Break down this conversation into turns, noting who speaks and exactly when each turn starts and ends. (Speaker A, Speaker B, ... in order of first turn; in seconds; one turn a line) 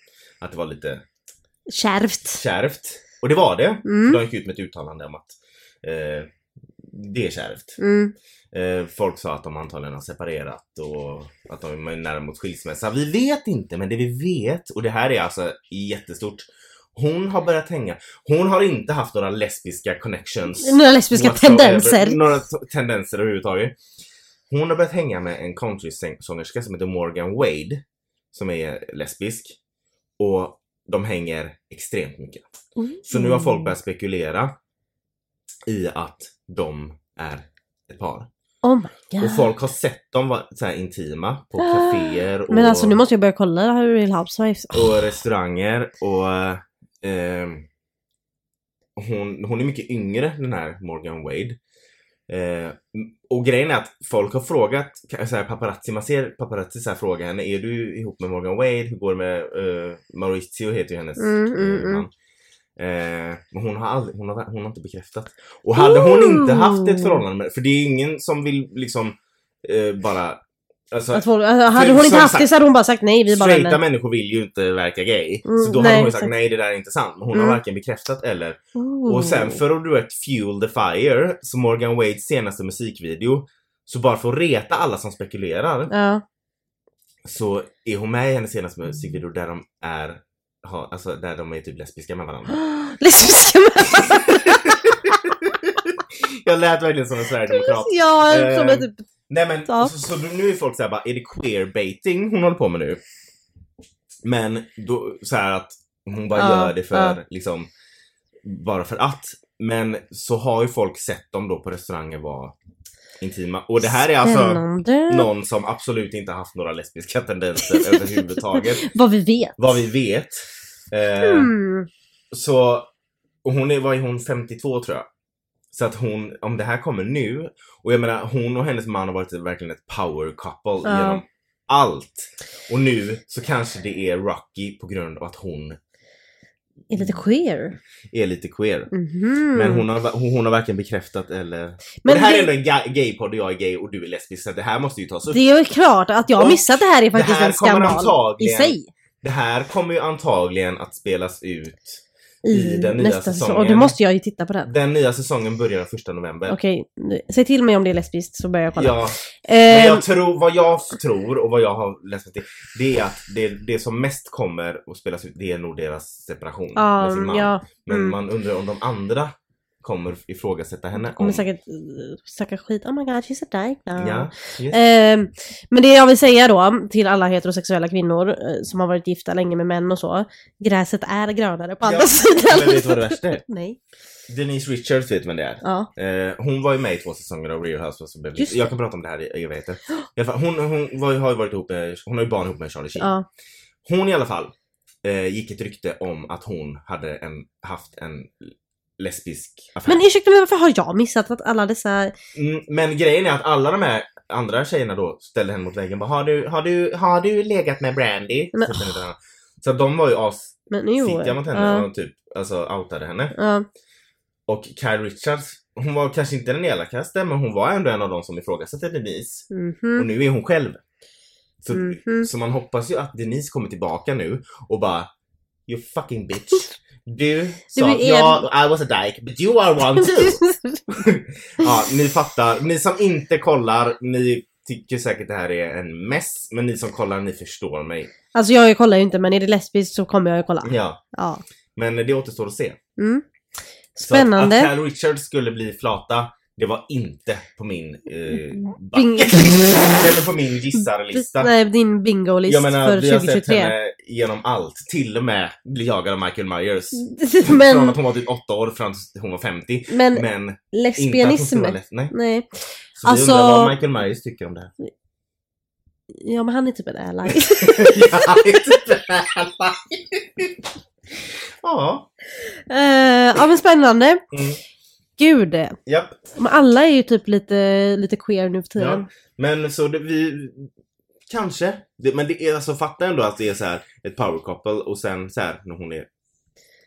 Speaker A: 0.4-1.0
Speaker B: 1.7-2.4
Speaker A: 2.4-6.3
Speaker B: 3.8-4.2
Speaker A: 6.8-7.8
Speaker B: 7.8-8.1
Speaker A: 8.5-23.8
Speaker B: 20.6-22.3
Speaker A: 24.5-27.8
Speaker A: 28.3-29.6
Speaker A: 30.2-32.4
Speaker B: 32.8-33.7
Speaker A: 33.0-34.5
Speaker A: 35.7-38.3
Speaker B: 38.6-39.5
Speaker A: 39.2-43.0
Speaker B: 41.6-45.0
Speaker A: 44.7-47.6
Speaker A: 49.0-51.6
Speaker A: 52.3-62.1
Speaker B: 61.2-62.0
Speaker A: 62.8-72.5
Speaker B: 65.8-67.2
Speaker B: 71.1-73.8
Speaker A: 73.3-85.9
Speaker B: 75.4-76.3
Speaker B: 78.8-79.6
Speaker B: 85.9-86.2
Speaker A: 87.2-92.6
Speaker B: 92.5-95.0
Speaker A: 93.9-103.0
Speaker B: 97.5-99.0
Speaker A: 104.2-107.7
Speaker B: 106.3-107.2
Speaker A: 108.4-112.5
Speaker A: 113.2-118.8
Speaker B: 114.2-115.3
Speaker B: 117.6-119.6
Speaker A: 119.6-121.5
Speaker B: 121.2-121.9
Speaker A: 122.3-122.9
Speaker A: 123.4-125.0
Speaker A: 125.7-135.8
Speaker B: 130.8-131.2
Speaker B: 136.9-137.8
Speaker A: 137.0-137.2
Speaker A: 138.1-138.9
Speaker B: 138.9-139.8
Speaker A: 139.5-145.4
Speaker B: 142.0-142.5
Speaker B: 145.3-148.9
Speaker A: 146.4-153.9
Speaker B: 152.4-154.7
Speaker A: 154.7-156.6
Speaker B: 156.5-160.0
Speaker A: 158.8-159.2
Speaker A: 159.7-169.3
Speaker B: 166.8-168.2
Speaker A: 169.8-171.4
Speaker B: 170.9-183.8
Speaker A: 174.0-174.8
Speaker A: 181.8-183.4
Speaker A: 184.3-193.1
Speaker B: 185.6-185.9
Speaker B: 188.4-188.7
Speaker B: 193.0-193.2
Speaker A: 193.8-194.5
Speaker A: 195.0-200.0
Speaker B: 199.9-202.1
Speaker A: 202.3-213.3
Speaker B: 210.7-211.8
Speaker B: 213.3-213.7
Speaker A: 214.5-220.8
Speaker B: 219.5-220.1
Speaker A: 221.6-225.1
Speaker B: 221.7-222.3
Speaker A: 225.7-238.1
Speaker B: 227.7-228.4
Speaker B: 230.2-230.8
Speaker B: 238.3-241.4
Speaker A: 240.6-241.0
Speaker A: 241.8-242.8
Speaker B: 243.0-243.2
Speaker B: 243.9-244.7
Speaker A: 244.0-251.5
Speaker B: 248.9-250.1
Speaker B: 251.1-253.7
Speaker A: 252.5-262.1
Speaker B: 256.9-258.0
Speaker B: 259.9-262.5
Speaker A: 263.0-264.7
Speaker B: 263.0-263.8
Speaker B: 266.1-268.7
Speaker A: 267.6-270.6
Speaker A: 271.6-272.1
Speaker B: 272.7-274.2
Speaker A: 274.3-274.6
Speaker B: 275.2-275.8
Speaker A: 275.9-276.2
Speaker B: 276.4-279.1
Speaker A: 278.8-280.7
Speaker A: 281.3-286.1